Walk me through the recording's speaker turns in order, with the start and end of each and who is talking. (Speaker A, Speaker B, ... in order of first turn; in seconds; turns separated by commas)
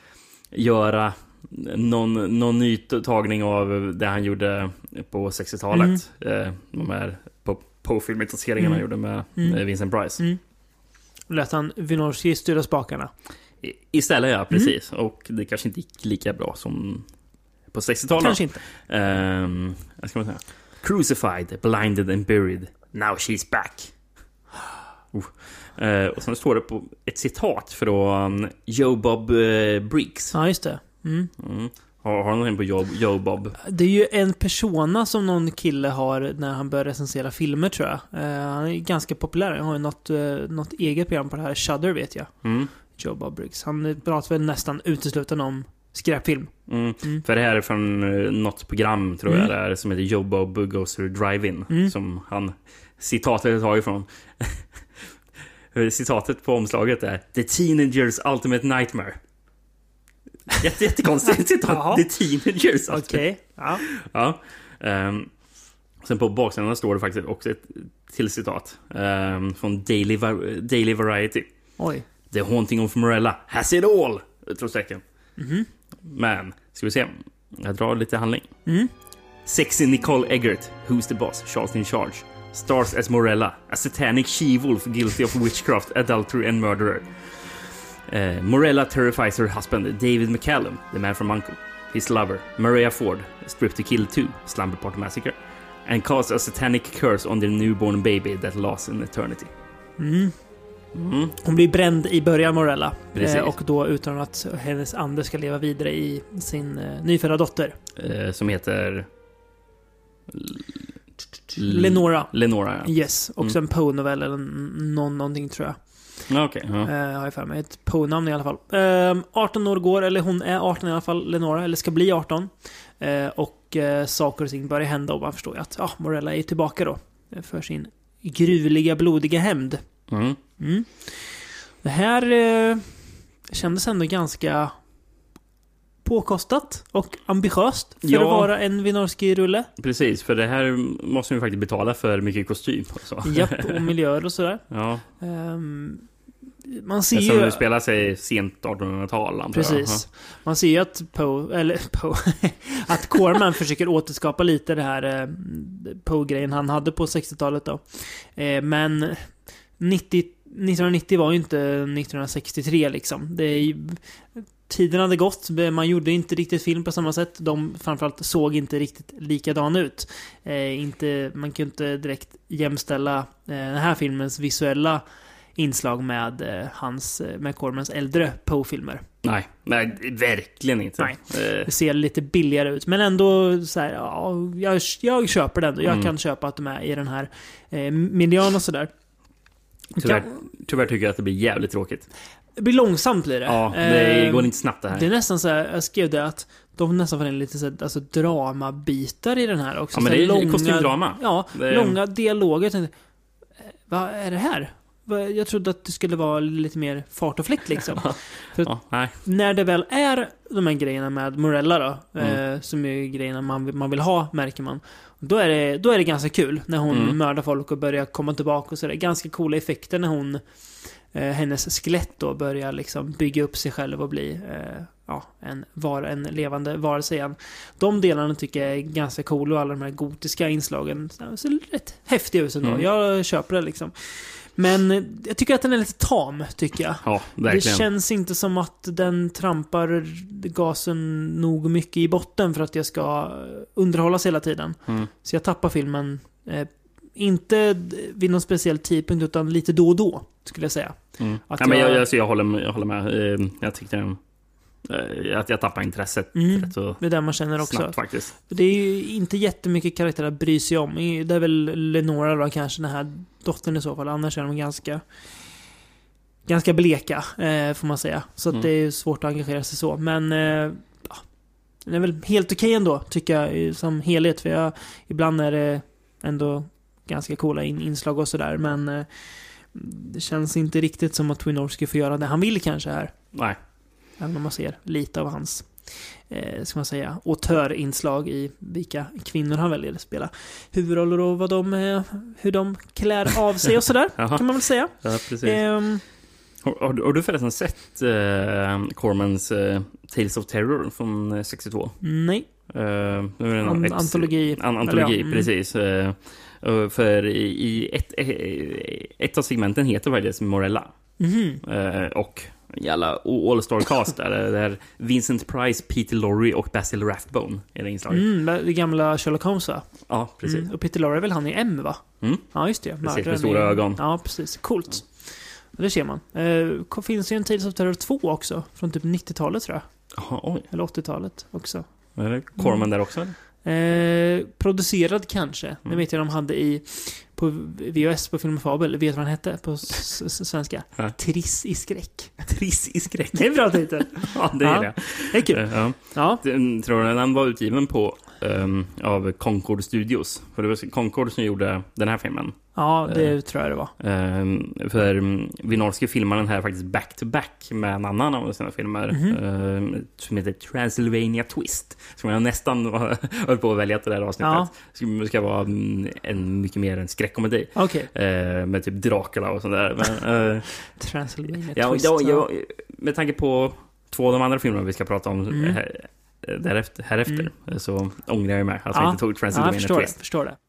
Speaker A: 0.5-10.2, Speaker B: 5.7-6.0, Speaker B: 11.3-13.1, Speaker A: 13.6-17.1, Speaker A: 17.7-23.9, Speaker B: 18.2-18.6, Speaker A: 25.1-30.3, Speaker B: 30.3-31.3, Speaker A: 31.4-33.6, Speaker B: 33.6-42.3, Speaker A: 42.4-42.7, Speaker B: 43.0-46.5, Speaker A: 46.7-54.6, Speaker A: 55.7-59.2, Speaker A: 60.6-63.3, Speaker B: 61.6-62.0, Speaker B: 62.9-63.8, Speaker A: 63.8-65.3, Speaker A: 66.0-71.5, Speaker B: 71.8-72.0, Speaker A: 72.3-75.0, Speaker B: 75.4-75.7, Speaker A: 76.1-78.5, Speaker A: 79.5-87.1, Speaker A: 88.1-99.5, Speaker B: 100.0-100.3, Speaker A: 100.9-101.4, Speaker B: 101.4-107.8, Speaker A: 103.1-103.5, Speaker A: 108.0-109.1, Speaker A: 110.3-110.8, Speaker A: 111.5-113.5, Speaker B: 111.6-112.3, Speaker B: 112.8-115.8, Speaker A: 116.3-116.9, Speaker B: 116.8-129.8, Speaker A: 130.1-130.4, Speaker B: 130.6-131.3, Speaker B: 131.8-132.8, Speaker B: 133.5-134.7, Speaker B: 136.0-139.7, Speaker A: 138.0-138.5, Speaker A: 139.8-143.9, Speaker B: 143.2-144.6, Speaker A: 144.7-145.0, Speaker B: 145.2-146.0, Speaker B: 146.7-147.6, Speaker A: 147.1-150.0, Speaker B: 149.5-164.0, Speaker B: 164.7-175.0, Speaker B: 175.6-179.0, Speaker A: 179.2-181.7, Speaker B: 181.0-188.9, Speaker A: 185.8-186.1, Speaker B: 189.9-190.3, Speaker A: 190.0-192.1, Speaker B: 192.6-202.9, Speaker A: 193.4-195.1, Speaker A: 199.9-202.0, Speaker B: 203.9-220.4, Speaker A: 207.9-209.1, Speaker A: 216.9-217.2, Speaker B: 221.1-251.0, Speaker A: 237.0-237.8, Speaker A: 251.2-254.2, Speaker B: 251.5-252.0, Speaker A: 254.8-258.3, Speaker B: 256.3-258.0, Speaker B: 258.5-265.0, Speaker B: 266.4-271.2, Speaker B: 271.8-279.1, Speaker B: 279.7-283.1, Speaker B: 284.2-296.0, Speaker A: 294.2-295.6, Speaker A: 296.6-302.0, Speaker B: 302.0-302.5, Speaker A: 302.7-310.9, Speaker B: 303.6-305.5, Speaker B: 311.2-311.6, Speaker A: 311.6-318.3, Speaker B: 318.1-319.9, Speaker A: 320.1-320.7, Speaker B: 320.4-322.0, Speaker A: 322.2-322.5, Speaker B: 322.5-329.8, Speaker A: 323.0-324.0, Speaker A: 330.1-330.7, Speaker B: 330.7-331.8, Speaker A: 332.2-333.3, Speaker B: 332.6-332.9, Speaker B: 333.6-342.4, Speaker A: 342.4-353.3, Speaker B: 343.3-346.4, Speaker B: 352.8-353.9, Speaker A: 354.0-370.7, Speaker B: 359.1-359.4, Speaker B: 364.4-364.7, Speaker B: 367.8-368.1, Speaker B: 371.0-372.4, Speaker A: 371.7-380.1, Speaker B: 375.5-375.8, Speaker B: 378.9-380.6